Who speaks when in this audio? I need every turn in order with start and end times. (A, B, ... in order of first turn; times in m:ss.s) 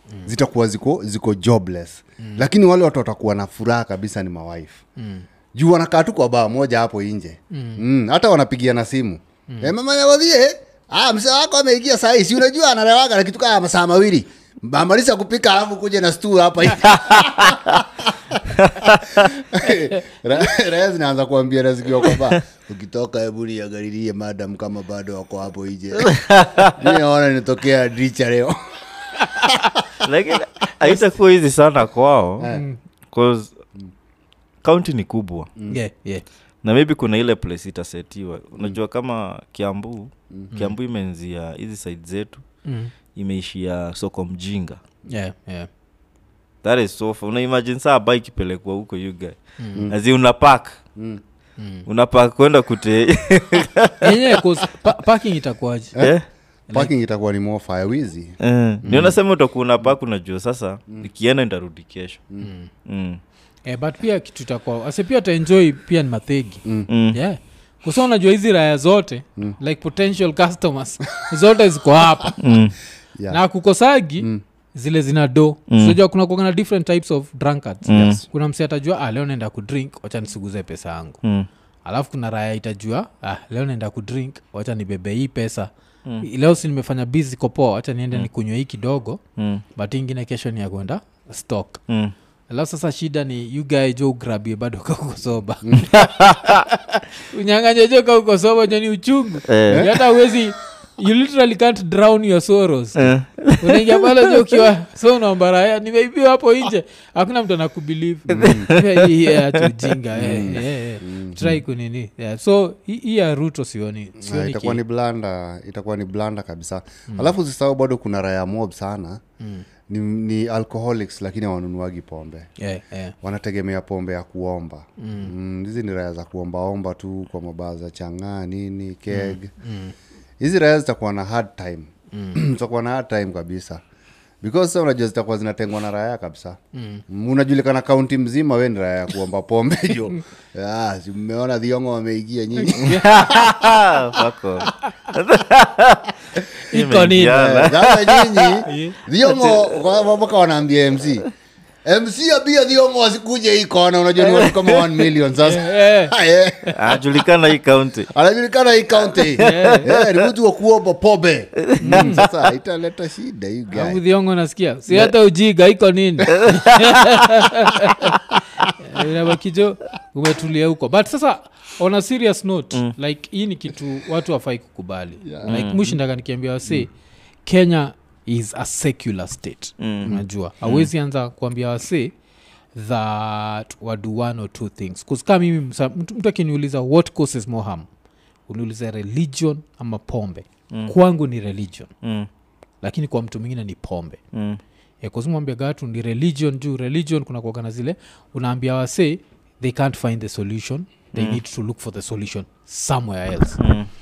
0:00.2-0:04.8 A
0:02.2-0:02.4 B
0:05.0-0:05.2 B
0:05.5-0:18.1 A
0:07.5-0:07.8 B
0:09.5-0:09.7 B
0:17.0-0:17.8 C
0:18.6-0:19.3 C
0:19.1-0:29.8 A
0:26.0-0:26.8 C
0:29.2-0:29.6 B
0:30.0-0:32.5 C
0:32.4-0:32.6 A
0:32.5-0:32.8 B
0:33.1-0:33.6 C
0:34.6-0:35.5 C
0:35.7-0:36.2 B
0:36.6-0:42.4 C
0:42.6-0:42.9 B
0:43.2-0:44.8 C
0:45.1-0:45.7 B
0:46.6-0:50.8 C
0:49.6-0:49.9 B
0:51.0-0:51.2 A
0:51.6-0:51.9 B
0:51.9-0:54.1 C
0:54.0-0:56.0 B
0:56.0-0:56.2 C
0:56.7-0:59.2 A
0:58.4-1:02.3 C
1:02.4-1:02.7 B
1:02.8-1:03.2 C
1:03.7-1:12.4 B
1:06.9-1:07.2 C
1:12.4-1:12.8 C
1:13.3-1:21.2 B
1:15.7-1:16.0 C
1:17.9-1:18.2 C
1:17.9-1:18.2 A
1:21.8-1:29.2 B
1:29.4-1:29.6 C
1:29.8-1:31.8 B
1:31.9-1:32.1 C
1:32.5-1:54.8 B
1:35.6-1:35.9 A
1:35.9-1:36.6 C
1:39.5-1:40.0 C
1:43.0-1:44.6 C
1:48.3-1:49.6 C
1:48.3-1:48.7 A
1:50.2-1:51.6 A
1:54.2-1:59.2 A
1:59.4-1:59.7 B
1:59.9-2:02.5 A
2:02.6-2:03.2 B
2:03.2-2:09.5 A
2:05.0-2:05.3 B
2:09.1-2:09.9 B
2:10.4-2:13.8 A
2:12.1-2:12.4 B
2:14.4-2:16.6 A
2:16.7-2:17.0 B
2:17.1-2:24.0 A
2:22.6-2:23.4 B
2:22.9-2:26.1 C
2:26.7-2:27.5 B
2:26.7-2:28.6 C
2:27.3-2:31.3 A
2:28.6-2:29.0 B
2:29.2-2:29.9 C
2:31.8-2:37.0 A
2:34.2-2:34.9 C
2:35.4-2:36.8 B
2:36.8-2:38.1 C
2:38.1-2:44.0 A
2:39.3-2:40.3 C
2:39.4-2:39.9 B
2:41.6-2:42.3 C
2:41.8-2:42.2 B
2:43.7-2:56.9 B
2:46.4-2:47.2 C
2:55.2-2:55.6 A
2:55.5-2:55.8 C
2:57.4-3:02.1 B
2:59.8-3:00.9 C
3:02.8-3:07.9 B
3:08.5-3:11.9 B
3:12.0-3:12.3 C
3:12.8-3:14.2 B
3:14.3-3:14.6 C
3:15.0-3:23.6 B
3:21.1-3:21.4 C
3:23.6-3:23.9 C